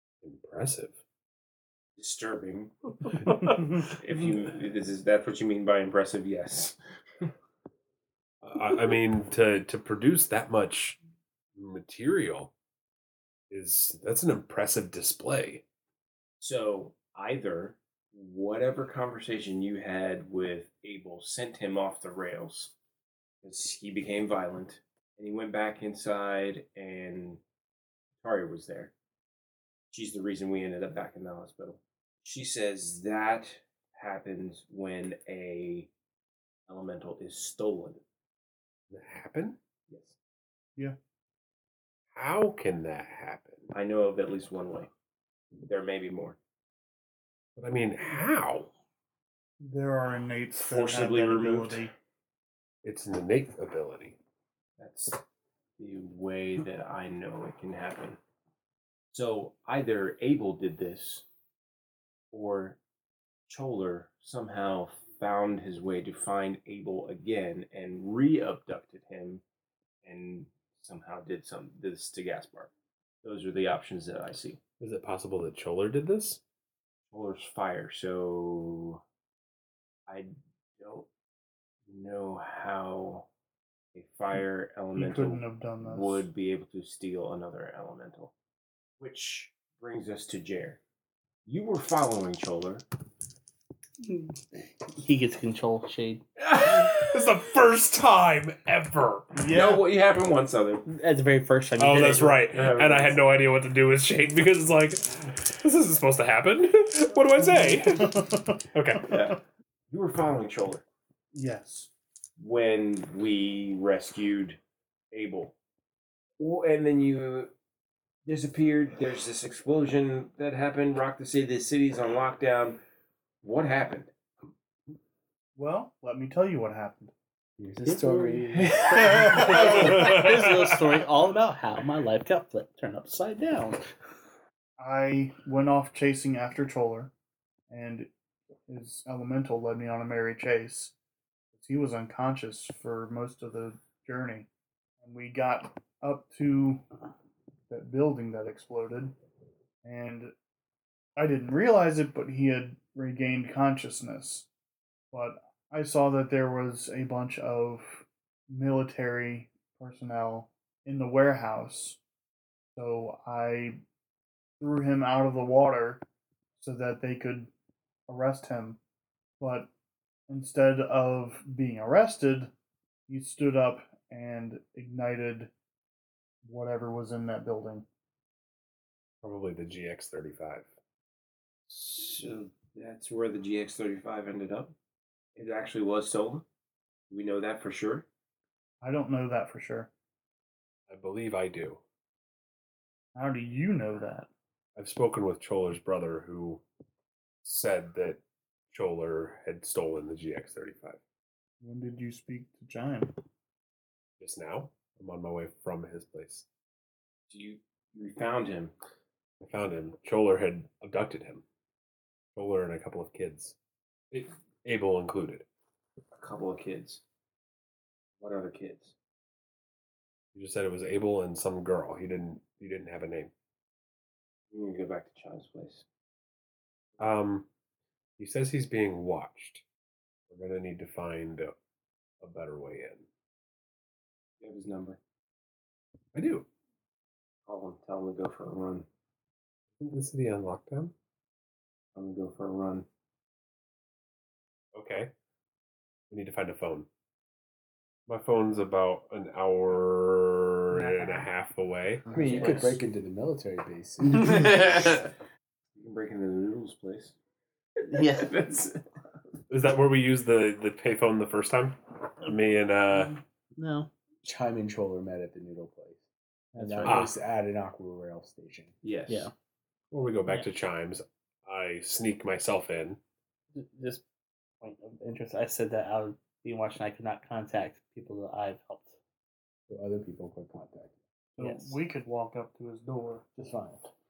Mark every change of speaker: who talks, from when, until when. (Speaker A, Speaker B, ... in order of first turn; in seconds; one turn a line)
Speaker A: 0.2-1.0
Speaker B: 2.0-2.8
Speaker B: 3.3-7.3
Speaker A: 3.3-3.6
Speaker A: 8.4-11.0
Speaker A: 11.6-12.5
Speaker A: 13.5-15.6
Speaker B: 16.4-22.7
Speaker B: 23.4-27.4
Speaker B: 28.2-28.9
Speaker B: 29.9-35.9
Speaker B: 36.7-38.0
Speaker A: 38.9-39.6
Speaker B: 39.9-40.2
Speaker A: 42.1-43.7
Speaker B: 43.7-44.9
Speaker B: 45.7-46.4
Speaker A: 47.6-48.7
Speaker C: 49.6-51.9
Speaker B: 50.6-51.8
Speaker A: 52.8-54.2
Speaker B: 54.8-55.2
Speaker B: 55.8-58.2
Speaker B: 59.1-61.2
Speaker B: 62.3-62.8
Speaker B: 63.5-69.4
Speaker B: 70.0-72.7
Speaker B: 73.2-74.6
Speaker A: 74.8-76.4
Speaker B: 77.1-79.0
Speaker B: 80.1-81.1
Speaker B: 81.9-83.3
Speaker B: 83.9-88.3
Speaker C: 85.0-86.3
Speaker B: 89.0-90.8
Speaker B: 91.5-92.8
Speaker D: 94.0-96.2
Speaker A: 96.4-99.3
Speaker C: 99.3-99.9
Speaker B: 99.5-100.8
Speaker D: 100.9-102.4
Speaker A: 101.8-109.2
Speaker B: 102.5-103.2
Speaker C: 107.6-109.2
Speaker B: 109.1-109.4
Speaker B: 109.9-110.8
Speaker C: 111.3-111.9
Speaker B: 112.4-114.6
Speaker B: 115.1-115.5
Speaker B: 116.4-117.5
Speaker B: 118.3-122.8
Speaker B: 123.4-124.1
Speaker C: 125.6-127.1
Speaker E: 127.6-128.9
Speaker D: 127.8-133.8
Speaker B: 128.6-129.8
Speaker C: 129.0-130.0
Speaker A: 129.7-130.6
Speaker C: 134.8-137.1
Speaker C: 137.7-138.1
Speaker C: 138.7-140.9
Speaker C: 141.5-144.5
Speaker C: 145.0-146.8
Speaker C: 147.7-149.2
Speaker C: 149.8-150.3
Speaker C: 151.2-154.5
Speaker C: 155.1-162.0
Speaker C: 162.8-163.8
Speaker C: 164.6-166.0
Speaker C: 166.6-167.5
Speaker C: 168.1-168.8
Speaker C: 169.4-169.7
Speaker C: 170.3-172.5
Speaker C: 173.1-175.5
Speaker C: 176.4-177.9
Speaker A: 179.2-180.7
Speaker B: 181.7-184.7
Speaker B: 185.4-186.4
Speaker B: 187.1-188.1
Speaker C: 188.8-189.9
Speaker A: 190.9-191.8
Speaker C: 193.2-194.3
Speaker A: 194.8-196.6
Speaker A: 197.4-201.0
Speaker C: 201.6-203.1
Speaker A: 204.2-206.4
Speaker B: 207.3-208.7
Speaker A: 209.4-211.4
Speaker A: 212.3-213.6
Speaker A: 214.1-215.5
Speaker B: 216.2-217.0
Speaker B: 218.2-218.9
Speaker A: 220.3-223.3
Speaker B: 224.5-225.9
Speaker A: 227.0-227.5
Speaker A: 228.2-229.6
Speaker A: 230.3-231.5
Speaker A: 232.2-233.1
Speaker B: 234.4-235.0
Speaker A: 236.1-236.5
Speaker B: 237.5-238.9
Speaker A: 239.8-240.9
Speaker B: 241.9-242.9
Speaker A: 244.8-245.1
Speaker A: 246.1-246.9
Speaker A: 248.1-252.1
Speaker C: 250.8-251.2
Speaker B: 252.1-252.8
Speaker E: 252.1-254.9
Speaker D: 254.3-254.7
Speaker B: 255.8-257.1
Speaker D: 257.9-258.3
Speaker B: 257.9-258.8
Speaker A: 259.5-263.2
Speaker D: 263.6-263.9
Speaker E: 264.2-268.7
Speaker D: 266.6-266.8
Speaker A: 266.8-267.1
Speaker B: 268.8-269.3
Speaker A: 269.9-273.0
Speaker D: 273.5-274.0
Speaker D: 274.6-279.0
Speaker E: 279.7-280.9
Speaker C: 281.4-283.2
Speaker D: 281.4-281.8
Speaker E: 283.4-283.8